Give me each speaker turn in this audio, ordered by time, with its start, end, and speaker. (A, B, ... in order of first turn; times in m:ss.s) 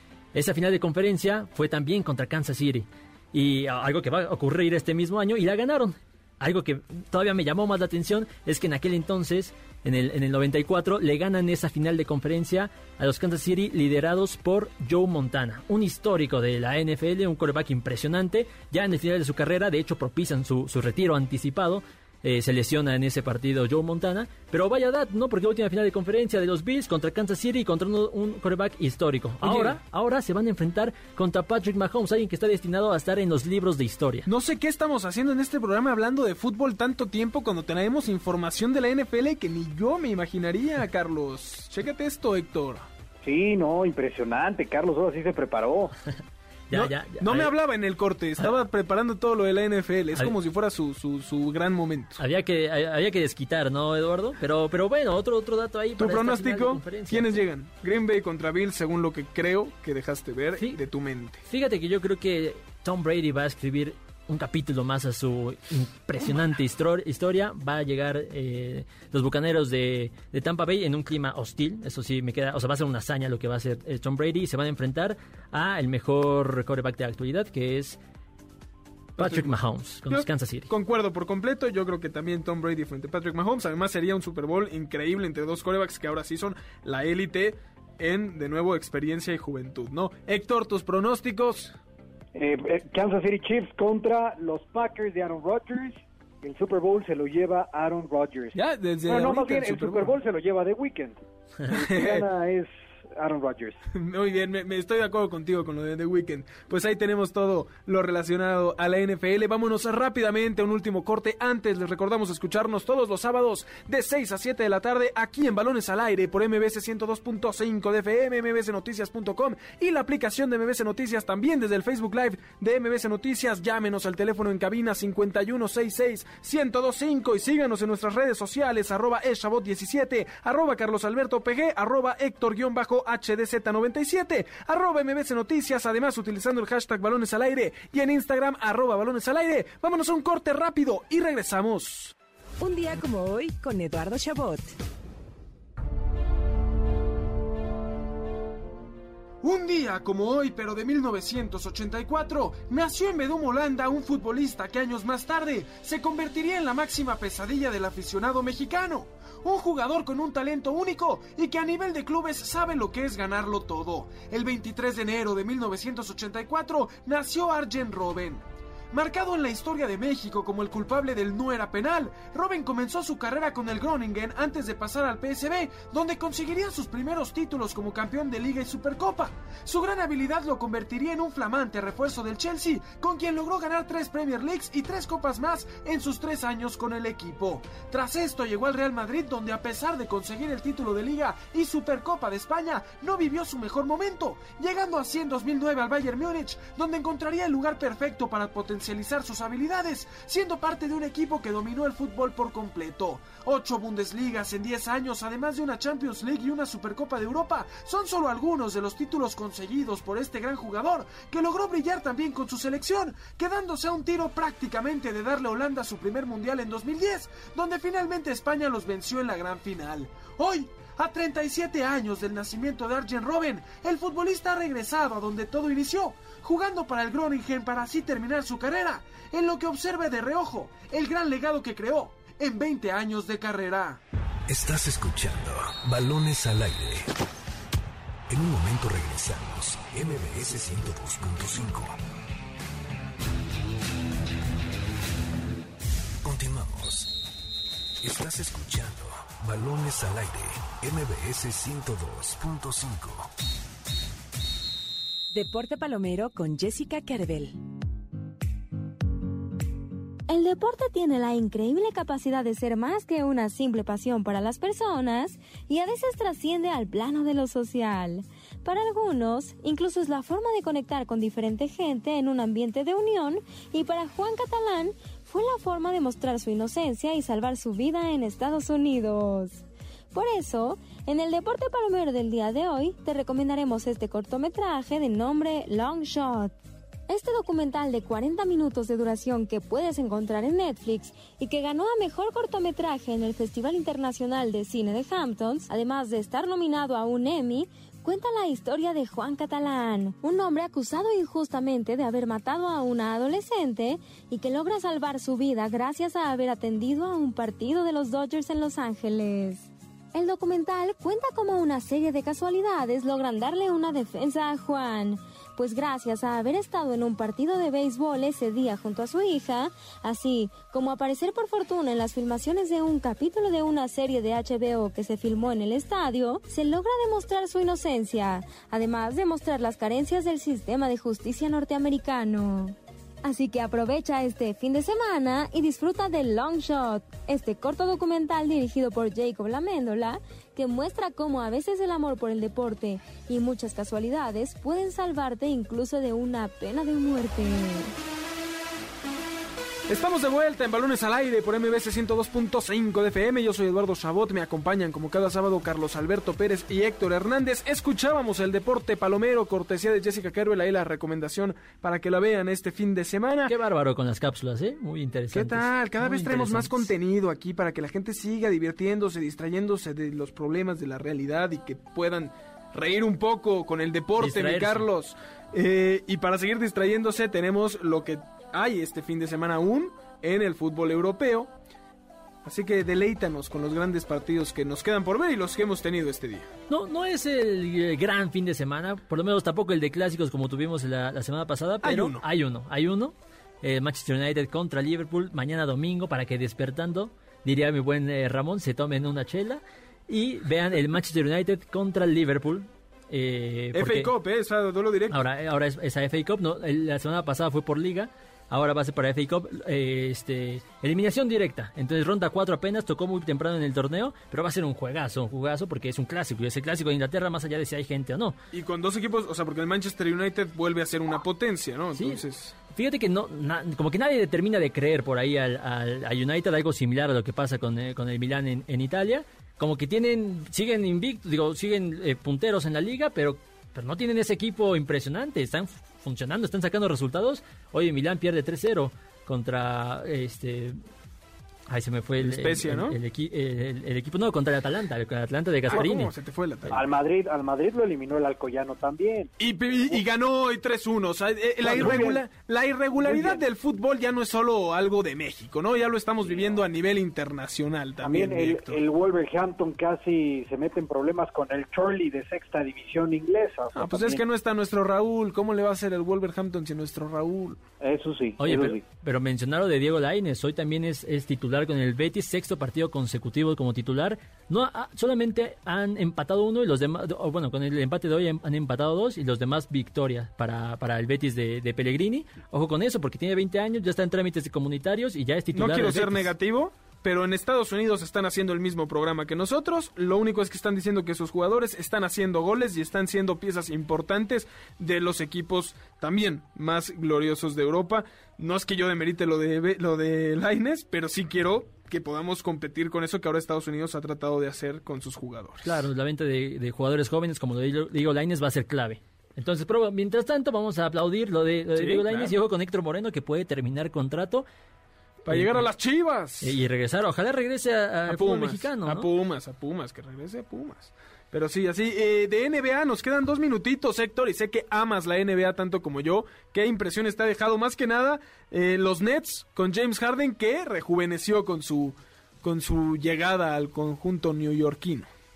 0:00.3-0:34.3 A
0:29.4-0:29.8 B
0:34.3-0:42.8 B
0:43.2-0:45.9 C
0:46.7-0:47.5 A
0:46.7-0:52.2 B
0:52.2-0:57.4 A
0:56.0-1:01.4 B
1:01.4-1:18.0 A
1:19.2-1:20.7 A
1:19.2-1:31.8 B
1:32.3-1:43.8 C
1:38.5-1:40.2 B
1:41.8-1:42.2 B
1:43.9-2:22.1 B
2:22.6-2:24.7 D
2:29.4-3:54.0 B
3:54.5-3:57.1 E
3:58.3-4:02.0 E
4:06.2-4:07.2 E
4:08.0-4:13.3 E
4:15.3-4:17.6 D
4:20.3-4:46.6 F
4:47.1-5:47.9 F
5:49.9-6:03.5 B
6:03.5-6:06.9 A
6:05.3-6:21.5 B
6:14.2-6:14.8 A
6:22.4-6:26.5 B
6:26.7-6:44.1 A
6:31.8-6:32.2 B
6:43.7-6:45.2 B
6:45.1-6:58.4 A
6:58.5-7:02.6 B
7:01.9-7:20.8 A
7:21.7-7:26.1 A
7:22.2-7:23.0 B
7:25.7-7:26.8 B
7:26.7-7:30.0 C
7:29.4-7:38.8 B
7:31.6-7:32.2 C
7:33.0-7:33.4 C
7:38.0-7:44.2 C
7:43.7-7:47.6 B
7:47.8-7:48.8 C
7:48.4-8:06.3 A
8:05.5-8:25.8 B
8:25.6-8:34.4 A
8:31.7-8:32.3 B
8:35.2-8:36.6 B
8:35.3-8:35.7 A
8:36.4-8:39.1 A
8:38.1-8:55.1 B